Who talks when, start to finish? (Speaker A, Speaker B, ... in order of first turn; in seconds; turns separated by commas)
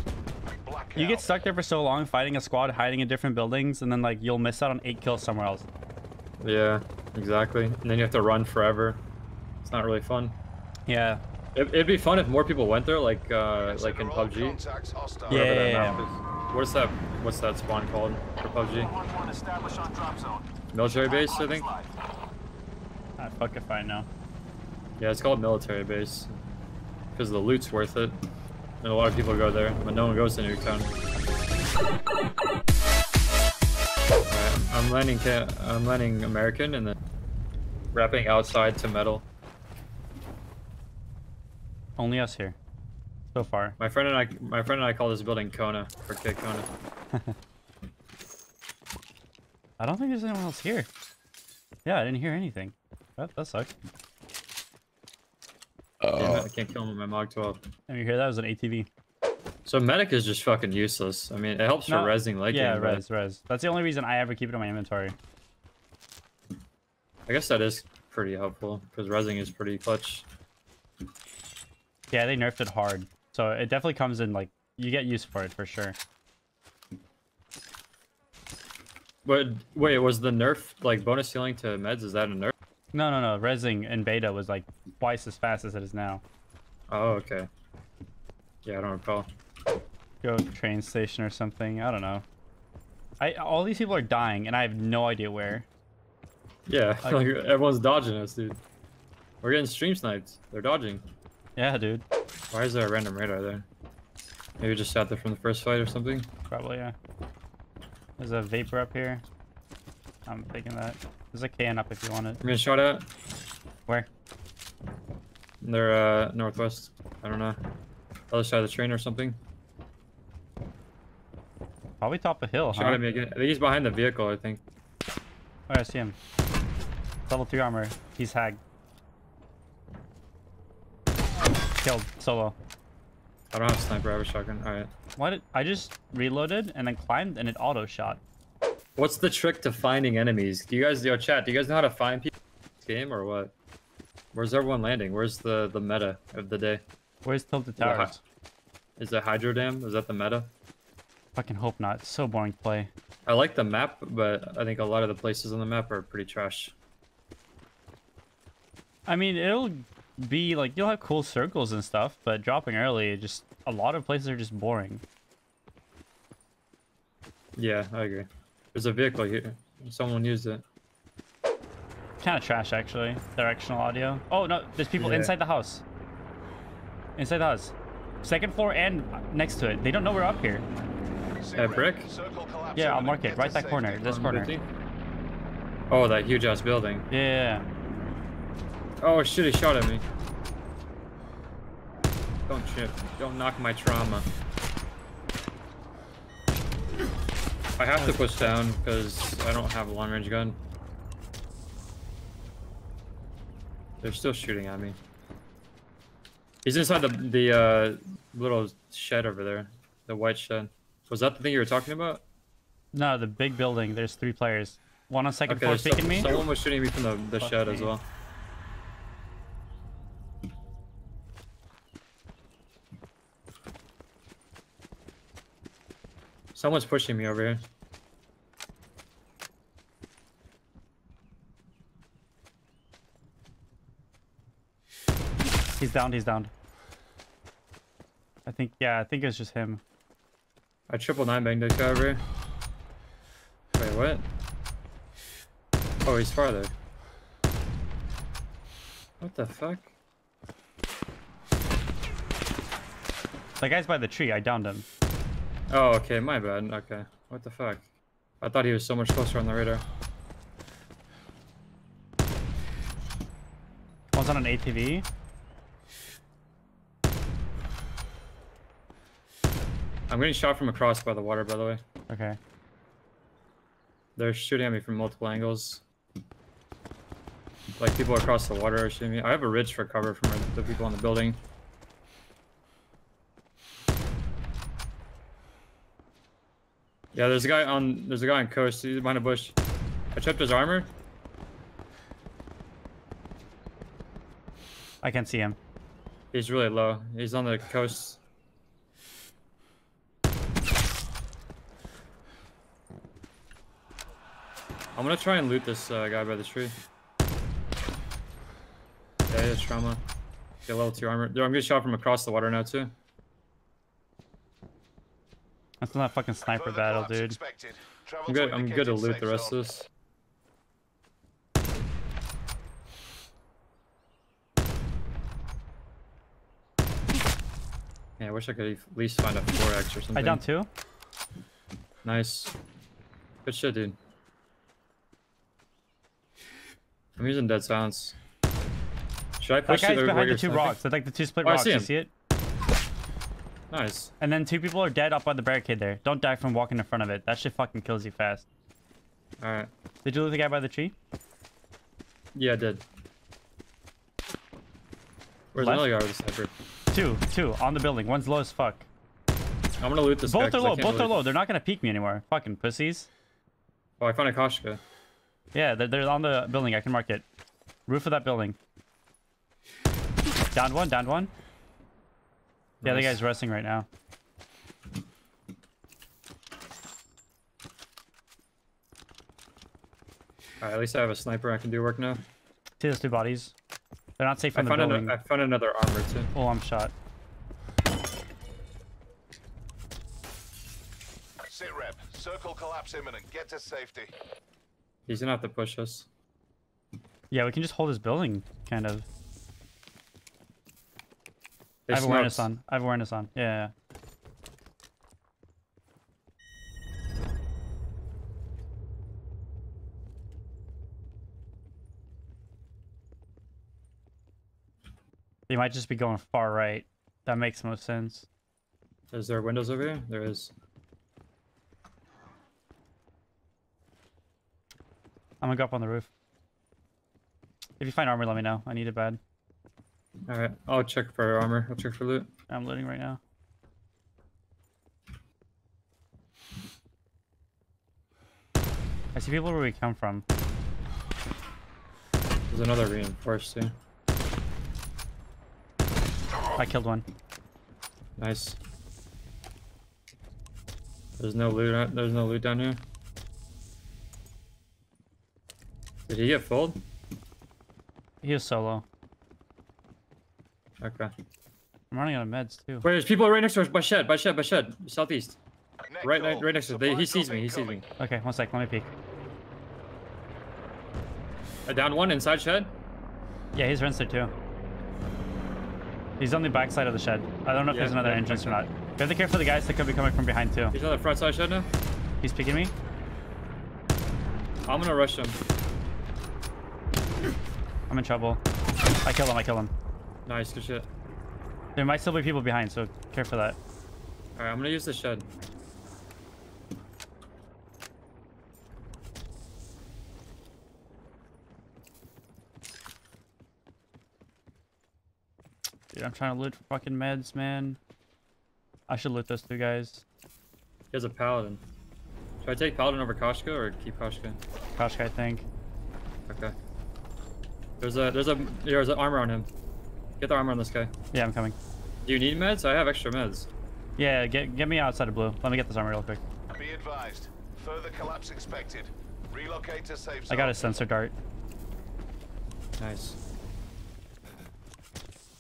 Speaker A: 0.6-1.4, Speaker B: 1.0-5.7, Speaker C: 6.4-9.0, Speaker C: 9.7-10.4, Speaker B: 10.9-11.2, Speaker C: 11.6-14.6, Speaker A: 13.6-15.5, Speaker C: 15.3-18.9, Speaker B: 15.3-16.0, Speaker A: 18.8-20.5, Speaker C: 20.7-21.7, Speaker A: 21.1-21.9, Speaker B: 23.2-24.1, Speaker C: 25.0-26.3, Speaker C: 27.2-28.2, Speaker C: 28.8-30.9, Speaker C: 34.3-37.0, Speaker C: 37.9-39.3, Speaker B: 42.0-42.6, Speaker B: 43.3-43.8, Speaker C: 43.8-46.7, Speaker B: 49.8-50.9, Speaker B: 51.9-53.7, Speaker C: 56.2-57.6, Speaker B: 57.9-58.9, Speaker C: 59.7-63.0, Speaker B: 61.9-65.2, Speaker C: 67.3-70.3, Speaker B: 72.1-76.0, Speaker C: 79.2-82.5, Speaker B: 82.9-86.2, Speaker C: 86.9-87.5, Speaker C: 88.7-89.3, Speaker B: 90.2-92.2, Speaker B: 93.2-95.7, Speaker C: 96.7-98.6, Speaker C: 99.4-101.0, Speaker B: 101.6-102.0, Speaker C: 102.5-103.7, Speaker C: 104.6-106.3, Speaker B: 106.5-107.0, Speaker B: 108.2-109.2, Speaker B: 110.3-112.4, Speaker C: 112.4-113.1, Speaker C: 115.6-117.6, Speaker C: 118.3-119.4, Speaker B: 122.0-123.0, Speaker C: 122.7-124.6, Speaker B: 125.7-126.2, Speaker B: 127.3-128.6, Speaker B: 131.8-132.6, Speaker C: 133.5-134.9, Speaker B: 135.2-138.2, Speaker C: 139.0-143.5, Speaker C: 144.3-146.8, Speaker B: 147.2-148.2, Speaker C: 147.8-148.1, Speaker C: 149.0-150.5, Speaker B: 151.4-152.9, Speaker C: 153.3-156.7, Speaker B: 159.1-165.0, Speaker C: 167.6-170.6, Speaker B: 172.2-175.8, Speaker C: 175.0-175.3, Speaker B: 177.2-180.7, Speaker A: 181.4-184.2, Speaker C: 181.6-182.1, Speaker B: 182.8-184.5, Speaker C: 184.0-184.6, Speaker C: 185.9-187.1, Speaker B: 187.1-187.7, Speaker C: 189.0-190.0, Speaker C: 192.5-194.3, Speaker C: 197.8-200.6, Speaker B: 198.0-198.5, Speaker C: 204.0-205.0, Speaker C: 206.7-212.2, Speaker B: 212.9-216.3, Speaker C: 215.5-218.0, Speaker B: 217.4-217.9, Speaker C: 226.6-227.6, Speaker B: 235.8-236.5, Speaker B: 238.5-239.8, Speaker C: 240.9-242.2, Speaker C: 243.8-244.2, Speaker C: 246.0-246.7, Speaker C: 249.2-249.9, Speaker B: 253.6-254.9, Speaker C: 255.7-257.9, Speaker C: 258.4-259.8, Speaker B: 264.1-265.1, Speaker C: 270.1-271.8, Speaker B: 272.1-272.4, Speaker C: 274.2-275.8, Speaker C: 277.8-281.4, Speaker C: 287.1-289.6, Speaker C: 290.1-290.9, Speaker B: 295.0-295.6, Speaker C: 296.3-298.2, Speaker C: 305.0-306.7, Speaker C: 309.3-310.0, Speaker C: 310.7-312.9, Speaker B: 315.8-317.4, Speaker A: 316.5-319.6, Speaker C: 318.3-319.9, Speaker C: 328.2-330.4, Speaker B: 330.1-330.7, Speaker C: 332.1-332.5, Speaker C: 333.4-334.0, Speaker C: 337.2-338.2, Speaker C: 339.4-340.8, Speaker B: 339.7-342.1, Speaker C: 341.4-341.9, Speaker C: 343.7-344.1, Speaker B: 344.2-348.4, Speaker C: 349.4-349.7, Speaker B: 350.1-350.9, Speaker C: 352.4-352.8, Speaker C: 355.5-356.5, Speaker B: 355.6-355.9, Speaker B: 356.9-358.9, Speaker C: 359.8-361.2, Speaker B: 360.3-363.1, Speaker C: 364.0-364.8, Speaker B: 365.5-367.2, Speaker B: 367.9-368.6, Speaker B: 370.5-371.3, Speaker C: 372.8-373.2, Speaker B: 372.8-373.9, Speaker C: 380.6-382.2, Speaker B: 382.8-383.5, Speaker B: 384.2-385.1, Speaker C: 384.6-386.3, Speaker B: 386.3-386.9, Speaker A: 391.5-394.1, Speaker C: 395.1-396.1, Speaker B: 397.3-399.1, Speaker C: 401.9-402.5, Speaker B: 401.9-403.7, Speaker B: 415.5-418.3, Speaker C: 419.1-420.5, Speaker B: 425.4-426.1, Speaker B: 427.8-429.2, Speaker C: 430.3-432.3, Speaker B: 432.5-433.2, Speaker B: 439.1-440.2, Speaker C: 442.5-443.7, Speaker B: 446.6-447.1, Speaker C: 448.2-448.6, Speaker C: 451.2-452.8, Speaker C: 456.1-456.8, Speaker B: 458.2-458.9, Speaker C: 460.8-461.1, Speaker B: 461.9-462.9, Speaker C: 462.8-465.4, Speaker A: 465.9-467.8, Speaker C: 466.0-467.8, Speaker B: 468.0-468.9, Speaker C: 471.7-472.7, Speaker B: 473.5-474.3, Speaker B: 476.2-480.8, Speaker C: 477.7-478.6, Speaker C: 480.7-481.7, Speaker B: 482.2-482.7, Speaker C: 484.7-485.4, Speaker B: 487.9-488.4, Speaker B: 489.0-489.7, Speaker C: 490.3-490.9, Speaker B: 491.8-493.6, Speaker C: 494.4-495.2, Speaker B: 505.9-507.8, Speaker B: 508.9-510.0, Speaker C: 510.9-511.6, Speaker C: 512.4-514.4, Speaker B: 514.8-515.5, Speaker C: 516.3-516.5, Speaker C: 517.8-519.5, Speaker C: 520.2-520.9, Speaker B: 521.1-521.6, Speaker C: 522.0-523.5, Speaker B: 524.0-526.2, Speaker A: 526.5-530.8, Speaker B: 530.3-531.1, Speaker C: 532.8-533.2